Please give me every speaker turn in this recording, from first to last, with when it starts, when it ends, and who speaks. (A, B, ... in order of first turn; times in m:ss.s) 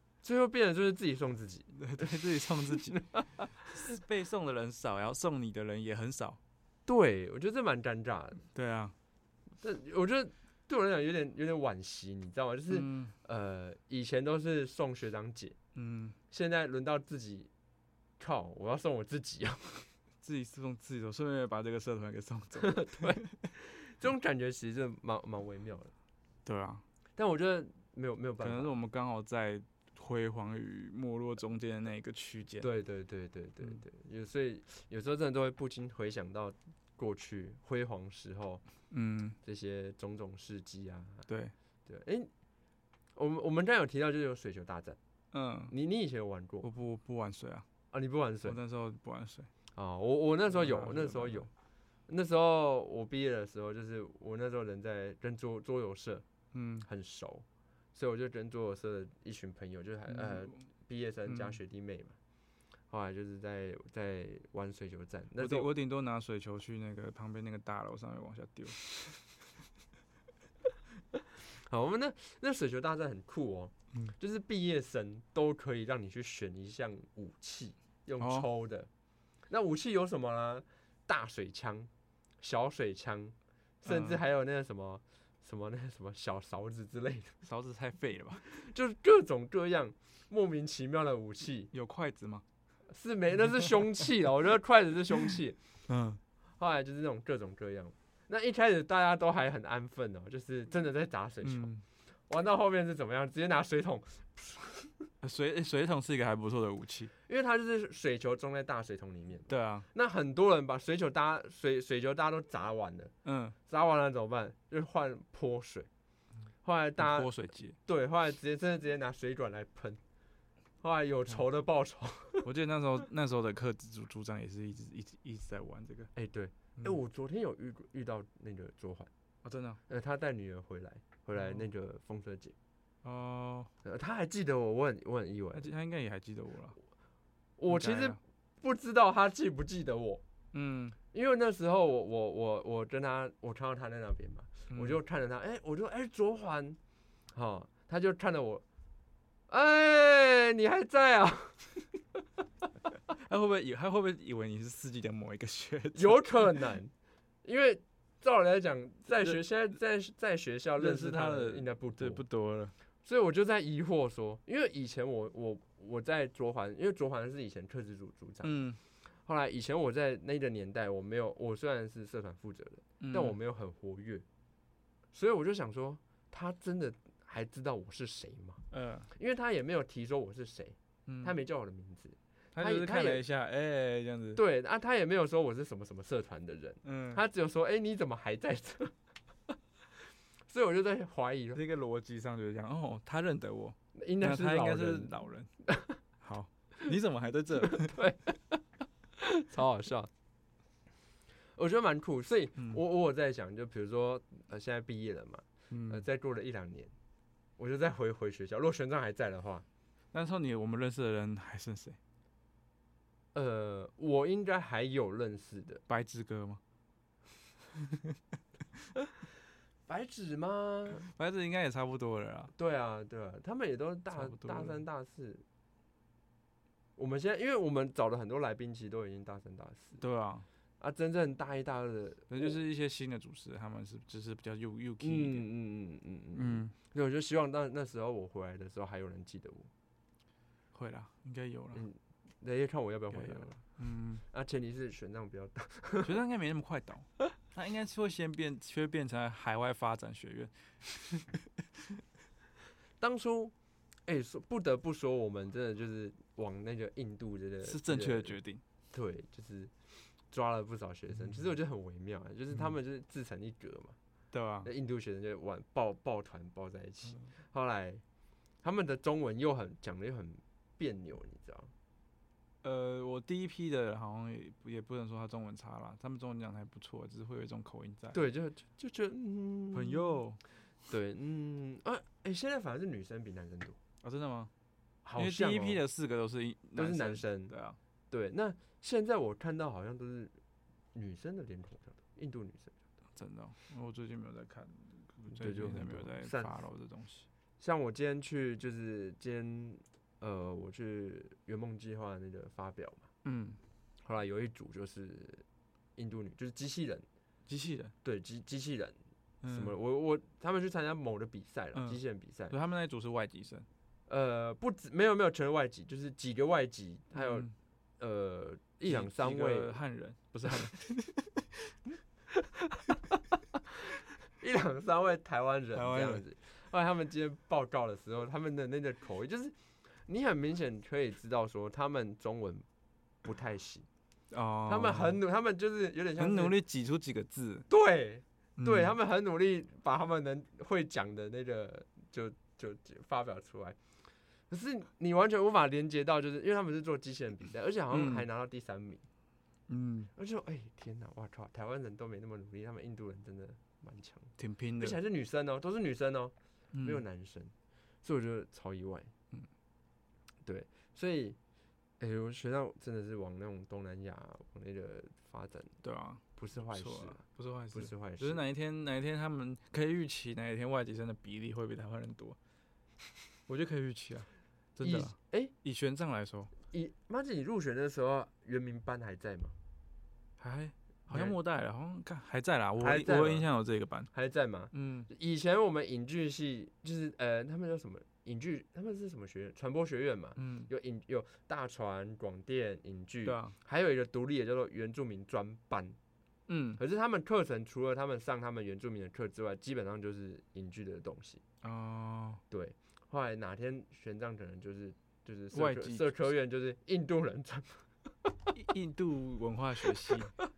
0:00.2-0:02.1 A
0:01.7-0:03.0 B
0:03.0-0:03.5 A
0:03.6-0:06.4 B
0:06.8-0:08.4 A
0:08.5-0:08.9 B
0:09.6-0:15.6 A
0:12.7-0:13.1 B
0:15.7-0:16.2 B
0:16.3-0:17.5 A
0:18.2-0:19.9 A
0:20.2-0:23.3 B
0:22.6-0:25.9 A
0:26.4-0:26.8 B
0:27.2-0:28.7 A
0:28.4-0:32.7 B
0:32.6-0:38.6 A
0:38.9-0:39.4 B
0:39.4-0:41.3 A
0:41.3-0:41.5 B
0:41.8-0:42.3 A
0:43.1-0:45.0 A
0:45.3-0:45.7 B
0:45.7-0:46.7 A
0:46.6-0:47.7 B
0:47.9-0:48.6 A
0:48.4-0:49.5 B
0:49.7-0:51.5 A
0:50.5-0:51.5 B
0:52.1-0:56.2 A
0:56.5-0:56.9 B
0:56.8-1:02.2 A
1:00.1-1:00.6 B
1:01.3-1:01.6 B
1:02.9-1:05.7 A
1:05.4-1:08.8 B
1:11.7-1:18.9 A
1:18.2-1:18.4 B
1:19.5-1:21.9 A
1:22.4-1:27.4 A
1:23.8-1:24.2 B
1:27.4-1:28.4 B
1:28.5-1:31.7 A
1:31.7-1:32.4 B
1:32.9-1:35.6 A
1:35.9-1:36.2 B
1:36.6-1:41.7 A
1:41.4-1:41.8 B
1:42.3-1:45.1 A
1:45.2-1:47.1 B
1:47.3-1:53.1 A
1:49.5-1:49.9 B
1:53.2-1:53.6 B
1:53.6-1:55.9 A
1:56.6-1:57.3 A
1:57.0-1:57.8 B
1:57.8-2:00.0 A
2:00.8-2:02.5 A
2:02.4-2:06.1 B
2:06.1-2:09.1 A
2:09.4-2:09.8 B
2:09.9-2:12.5 A
2:11.4-2:11.6 B
2:13.0-2:13.7 B
2:13.8-2:15.7 A
2:15.5-2:16.8 B
2:17.6-2:20.2 A
2:17.7-2:18.2 B
2:20.5-2:21.0 B
2:21.1-2:26.8 A
2:24.7-2:25.0 B
2:27.3-2:28.6 A
2:29.5-2:31.8 A
2:33.2-2:36.5 B
2:35.9-2:36.9 A
2:37.4-2:42.2 A
2:40.8-2:42.7 B
2:43.0-2:48.6 A
2:48.4-2:48.8 B
2:49.2-2:54.2 A
2:53.0-2:53.4 B
2:55.1-3:03.2 A
2:58.7-2:59.1 B
3:01.0-3:01.3 B
3:02.5-3:04.4 B
3:04.3-3:08.9 A
3:06.8-3:07.2 B
3:10.5-3:11.6 A
3:11.5-3:15.5 B
3:13.9-3:16.0 A
3:16.2-3:18.0 B
3:17.6-3:18.6 A
3:19.2-3:20.1 A
3:21.6-3:26.9 A
3:25.7-3:26.0 B
3:27.6-3:29.6 A
3:30.1-3:32.0 B
3:33.3-3:35.8 A
3:35.9-3:36.6 B
3:37.8-3:38.2 B
3:39.9-3:41.0 A
3:41.0-3:42.5 B
3:42.6-3:45.4 A
3:44.1-3:44.8 B
3:47.0-3:50.0 A
3:50.0-3:50.4 B
3:50.8-3:52.6 A
3:52.3-3:55.4 B
3:55.0-3:59.7 A
3:56.3-3:56.7 B
4:00.7-4:01.8 B
4:01.7-4:03.6 A
4:03.1-4:04.2 B
4:04.3-4:06.2 A
4:06.0-4:12.0 B
4:13.0-4:13.5 A
4:14.0-4:18.4 A
4:17.6-4:18.6 B
4:18.9-4:19.7 A
4:20.3-4:24.0 A
4:24.3-4:24.7 B
4:24.6-4:28.0 A
4:28.6-4:31.7 A
4:32.6-4:38.2 B
4:38.1-4:40.2 A
4:39.7-4:40.4 B
4:40.8-4:43.8 A
4:44.0-4:44.5 B
4:45.0-4:45.8 A
4:45.2-4:47.8 B
4:46.8-4:47.5 A
4:48.1-4:50.4 A
4:50.9-4:52.7 A
4:53.1-4:57.3 B
4:55.3-4:56.6 A
4:57.6-5:03.1 A
5:03.2-5:03.6 B
5:04.0-5:05.4 A
5:06.0-5:07.0 A
5:07.4-5:07.9 B
5:08.0-5:09.0 A
5:09.4-5:09.8 B
5:09.5-5:12.6 A
5:11.7-5:13.7 B
5:14.1-5:19.7 A
5:17.1-5:17.5 B
5:18.8-5:21.7 B
5:22.3-5:23.2 A
5:24.0-5:32.6 A
5:25.7-5:26.2 B
5:33.2-5:33.9 A
5:34.3-5:35.2 B
5:34.7-5:36.6 A
5:36.2-5:37.7 B
5:37.7-5:43.8 A
5:38.6-5:38.9 B
5:44.5-5:49.0 A
5:47.9-5:48.3 B
5:49.7-5:50.1 B
5:50.2-5:59.1 A
5:54.4-5:55.0 B
5:56.7-5:57.0 B
6:00.4-6:01.4 A
6:02.0-6:05.7 A
6:05.8-6:12.4 B
6:06.4-6:08.4 A
6:13.5-6:16.5 B
6:14.8-6:15.5 A
6:16.7-6:19.5 A
6:20.4-6:24.1 B
6:21.1-6:21.3 A
6:22.8-6:23.5 A
6:24.1-6:36.0 A
6:24.7-6:25.1 B
6:30.4-6:30.7 B
6:33.2-6:33.6 B
6:36.5-6:36.8 B
6:36.8-6:41.4 A
6:41.6-6:42.4 B
6:42.5-6:47.9 A
6:45.5-6:46.1 B
6:48.5-6:50.3 B